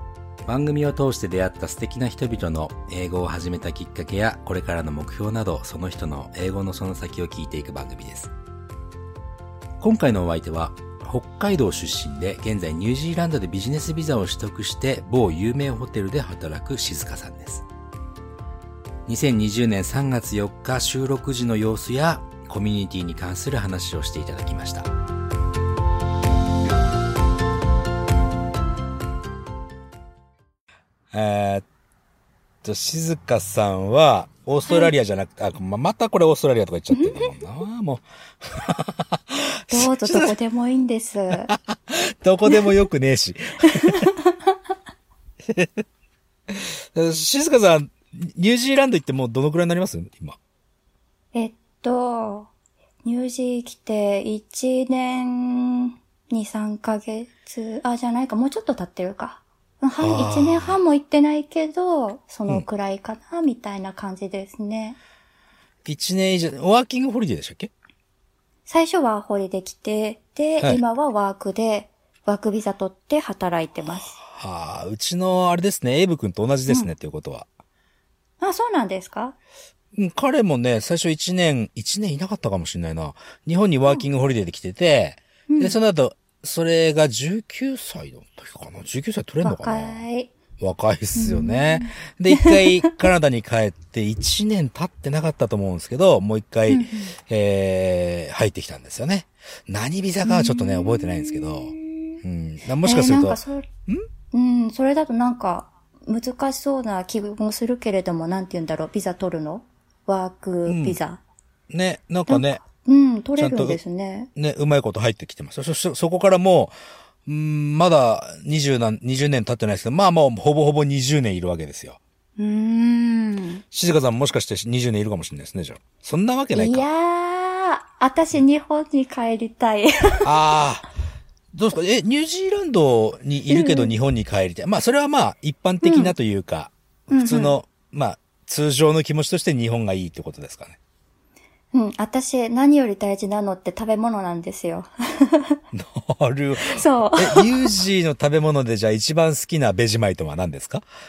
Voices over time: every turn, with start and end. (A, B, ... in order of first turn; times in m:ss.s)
0:00.4-0:08.3 A
0:09.8-0:17.6 A
0:19.0-0:24.9 A
0:31.1-0:31.6 A
0:32.6-0:40.3 A
0:36.9-0:37.3 B
0:39.7-0:41.5 B
0:41.5-0:44.1 A
0:43.7-0:44.5 B
0:45.4-0:45.8 A
0:46.5-0:50.4 A
0:51.3-0:52.5 B
0:53.0-1:05.0 B
1:00.0-1:00.8 A
1:05.8-1:07.7 A
1:08.6-1:14.2 B
1:14.2-1:17.5 A
1:18.4-1:19.3 B
1:19.9-1:30.0 A
1:25.5-1:25.8 B
1:29.4-1:30.3 B
1:30.6-1:44.0 A
1:31.1-1:33.0 B
1:36.7-1:37.1 B
1:40.2-1:42.2 B
1:42.8-1:43.7 B
1:44.3-1:51.2 B
1:50.6-1:51.0 A
1:51.7-1:52.6 A
1:52.3-1:54.3 B
1:53.4-1:53.8 A
1:54.3-1:56.7 A
1:57.2-2:02.0 A
2:02.4-2:03.6 B
2:03.7-2:06.8 A
2:06.5-2:10.3 B
2:10.2-2:10.8 A
2:11.5-2:20.8 A
2:13.5-2:13.9 B
2:15.8-2:16.1 B
2:17.1-2:17.6 B
2:21.7-2:25.6 B
2:25.7-2:30.8 A
2:26.6-2:27.8 B